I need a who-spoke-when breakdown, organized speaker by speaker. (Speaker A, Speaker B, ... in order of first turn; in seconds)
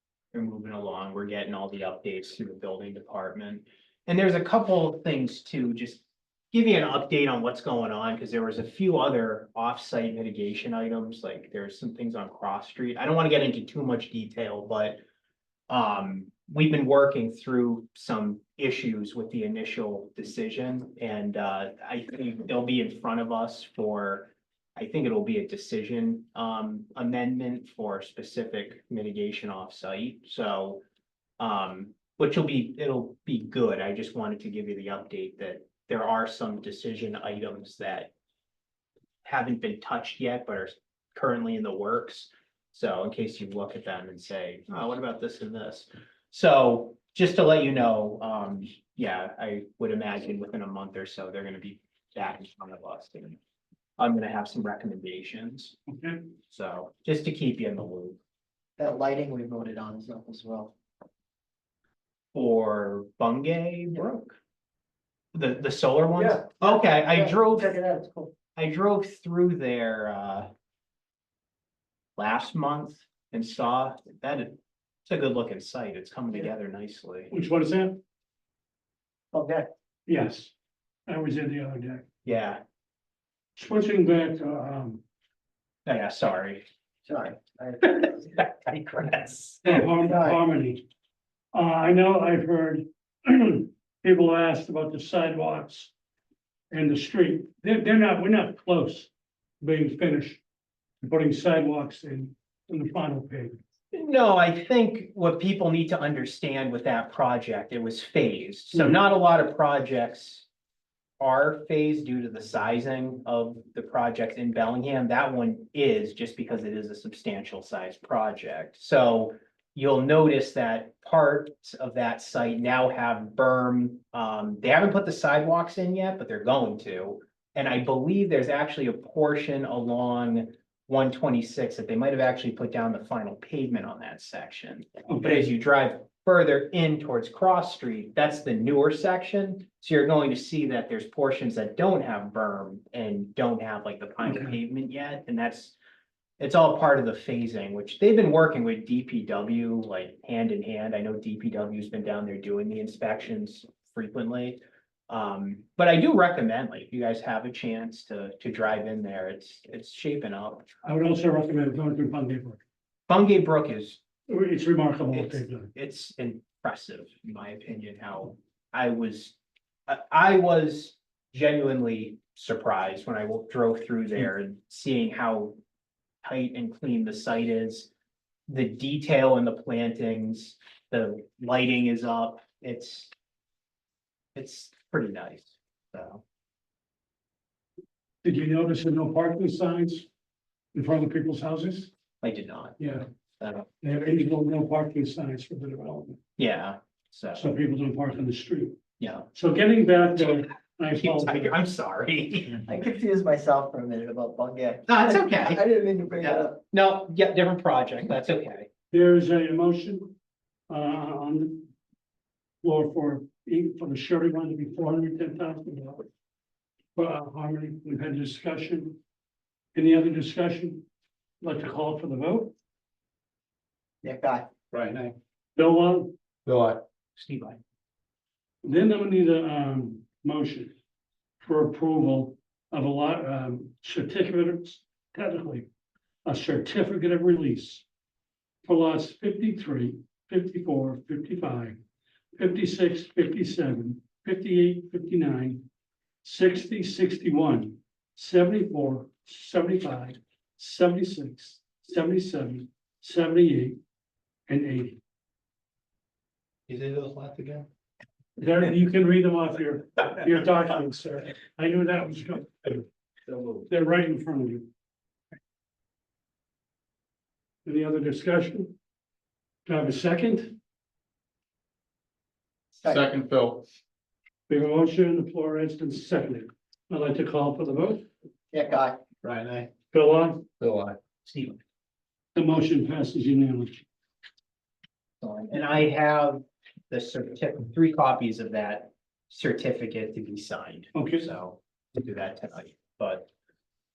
Speaker A: 0.3-15.0, 15.7-30.8, 31.4-38.1, 39.2-53.4, 54.0-55.8, 56.5-58.2, 62.3-64.4, 65.3-67.8, 68.5-70.5, 72.2-77.3, 82.2-82.6, 85.9-86.6, 87.9-89.7, 103.9-110.5, 111.2-145.8, 146.4-160.7, 163.1-164.0, 165.1-169.4, 169.9-175.6, 176.2-177.9, 178.5-183.1, 184.3-186.2, 192.2-192.8, 193.4-193.7, 196.4-197.5, 199.0-199.3, 200.9-202.6, 204.9-205.6, 206.2-208.7, 227.2-227.6, 285.2-293.3
Speaker B: 55.9-56.3, 77.3-78.0, 80.1-80.5, 81.1-82.1, 83.6-85.0, 89.7-90.8, 91.5-95.9, 96.7-99.1, 99.6-100.4, 101.0-103.6, 135.1-135.5, 144.2-144.6, 160.8-162.6, 164.3-165.7, 188.2-190.1, 190.7-191.9, 192.8-193.1, 193.8-196.2, 197.3-198.8, 199.3-201.6, 208.9-210.1, 210.7-211.7, 212.6-216.1, 216.9-219.0, 219.8-220.9, 221.4-222.5, 225.6-226.1, 228.6-230.7, 231.4-235.7, 236.2-237.8, 238.6-241.8, 242.4-245.7, 246.2-253.8, 254.5-255.0, 258.4-262.9, 263.7-264.7, 267.6-268.8, 269.7-270.6, 274.5-278.1, 279.9-280.5, 282.4-283.9, 290.9-291.3
Speaker C: 58.8-60.7, 66.2-68.3, 79.3-79.7, 87.1-88.1, 90.0-90.4, 202.6-206.6, 224.0-224.5, 272.8-273.1, 278.5-279.0
Speaker D: 224.7-225.2, 226.5-226.8, 256.7-257.7, 263.3-263.6, 272.9-273.6, 279.2-279.7, 280.6-281.6